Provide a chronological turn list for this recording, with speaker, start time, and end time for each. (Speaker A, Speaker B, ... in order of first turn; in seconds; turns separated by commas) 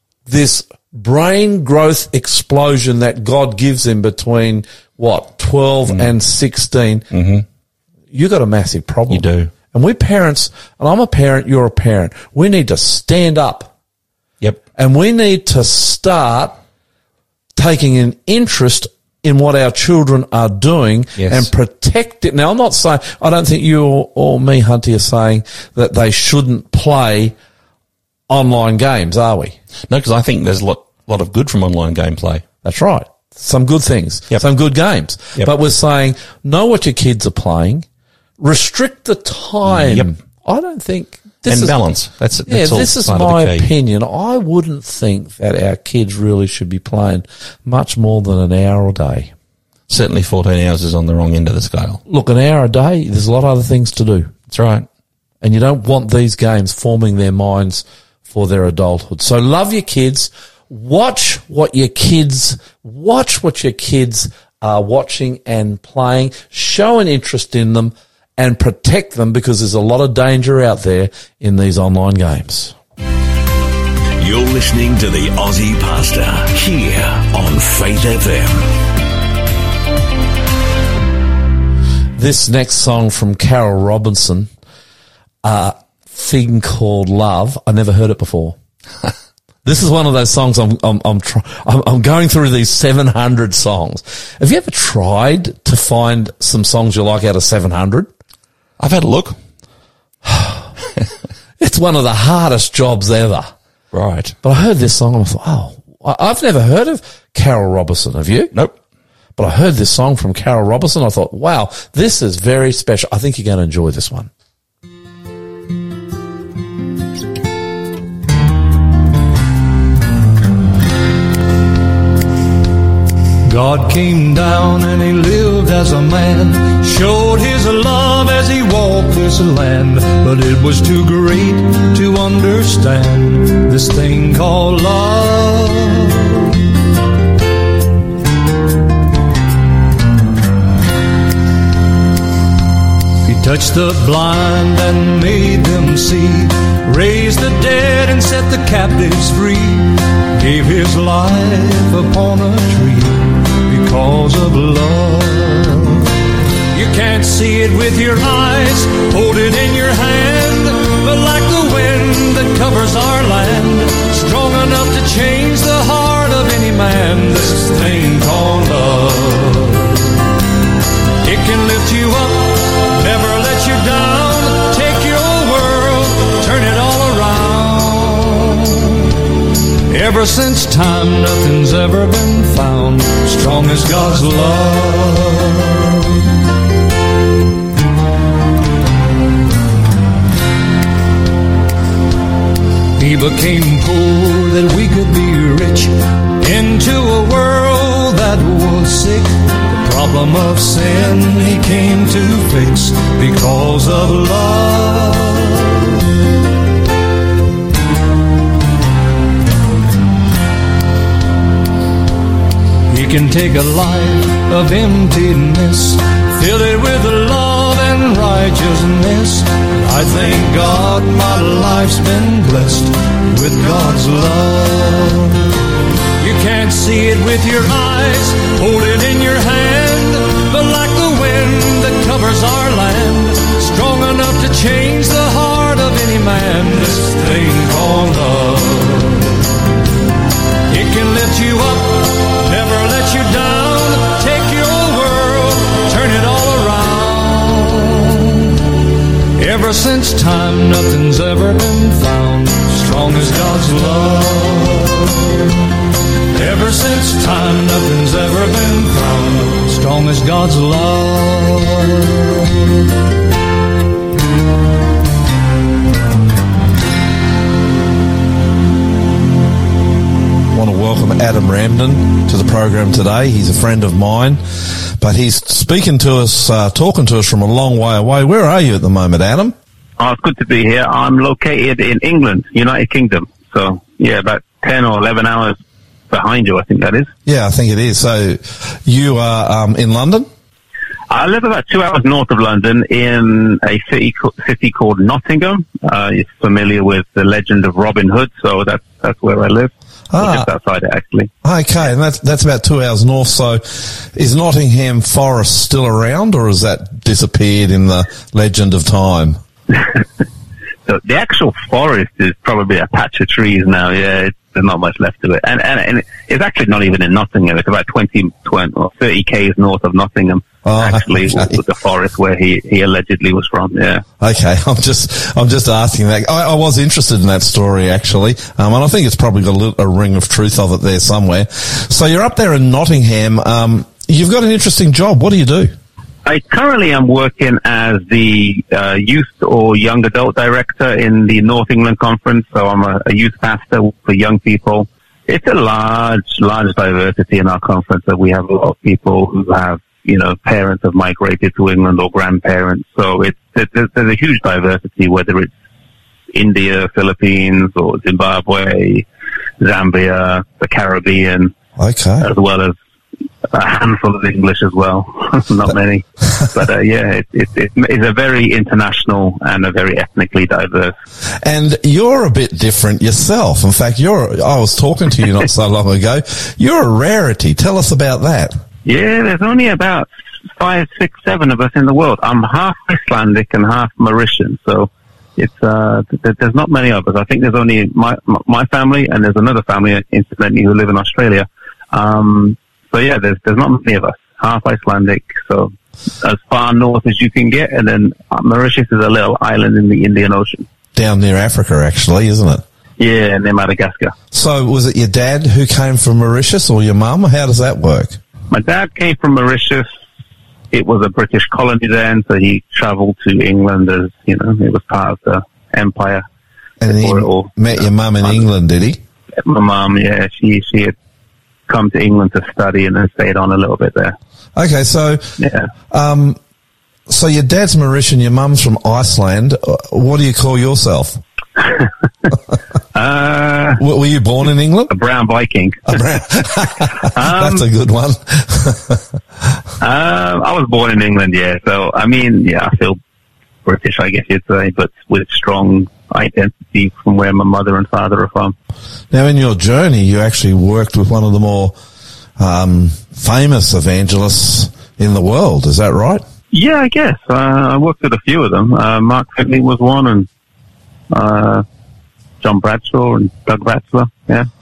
Speaker A: 0.2-7.0, Speaker B: 7.1-7.4, Speaker A: 8.1-13.7, Speaker B: 9.1-9.5, Speaker A: 14.8-16.6, Speaker A: 17.6-27.3, Speaker B: 21.2-21.5, Speaker A: 28.3-29.6, Speaker B: 29.9-32.4, Speaker A: 32.6-37.9, Speaker A: 38.4-41.8, Speaker B: 39.6-40.1, Speaker B: 41.5-43.7, Speaker A: 42.5-49.3, Speaker B: 49.9-52.0, Speaker A: 52.1-54.3, Speaker B: 54.5-54.9, Speaker A: 55.4-72.8, Speaker C: 74.2-78.6, Speaker A: 82.2-84.5, Speaker A: 85.4-88.6, Speaker A: 89.6-98.1, Speaker B: 98.8-99.4, Speaker A: 100.2-100.6, Speaker A: 101.6-103.5, Speaker B: 103.9-104.3, Speaker A: 104.4-108.5, Speaker A: 109.4-114.3, Speaker D: 123.5-136.4, Speaker D: 143.2-156.1, Speaker D: 156.7-170.1, Speaker D: 171.2-179.0, Speaker D: 179.9-185.9, Speaker D: 193.0-205.7, Speaker D: 212.9-225.5, Speaker D: 226.2-239.4, Speaker D: 240.7-248.5, Speaker D: 249.3-255.2, Speaker D: 256.3-262.1, Speaker A: 270.5-279.5, Speaker E: 280.0-285.6, Speaker E: 286.1-287.1, Speaker A: 287.2-290.3, Speaker E: 291.1-301.3, Speaker A: 300.1-300.5, Speaker A: 301.4-309.4, Speaker E: 310.9-324.0, Speaker A: 320.6-321.6, Speaker A: 324.2-335.7, Speaker E: 336.2-355.5, Speaker E: 356.3-359.1, Speaker E: 359.6-361.5, Speaker A: 361.8-362.3, Speaker E: 362.2-362.8, Speaker E: 363.5-370.9, Speaker A: 371.4-378.6, Speaker E: 378.8-400.6, Speaker A: 400.9-402.6, Speaker E: 403.0-404.1, Speaker A: 404.3-408.2, Speaker E: 408.5-409.9, Speaker E: 410.7-416.2, Speaker A: 416.8-419.0, Speaker E: 416.8-417.5, Speaker E: 419.4-420.9, Speaker E: 421.7-424.1, Speaker A: 424.6-425.3, Speaker E: 425.4-425.7, Speaker A: 425.9-426.4, Speaker A: 427.1-431.2, Speaker E: 431.6-432.3, Speaker E: 432.9-433.8, Speaker A: 433.8-434.9, Speaker E: 434.9-436.0, Speaker A: 435.9-439.0, Speaker E: 437.1-437.6, Speaker E: 439.8-443.0, Speaker E: 443.6-448.5, Speaker A: 449.1-451.7, Speaker A: 452.4-456.2, Speaker E: 456.5-460.3, Speaker E: 461.1-461.6, Speaker E: 462.4-464.5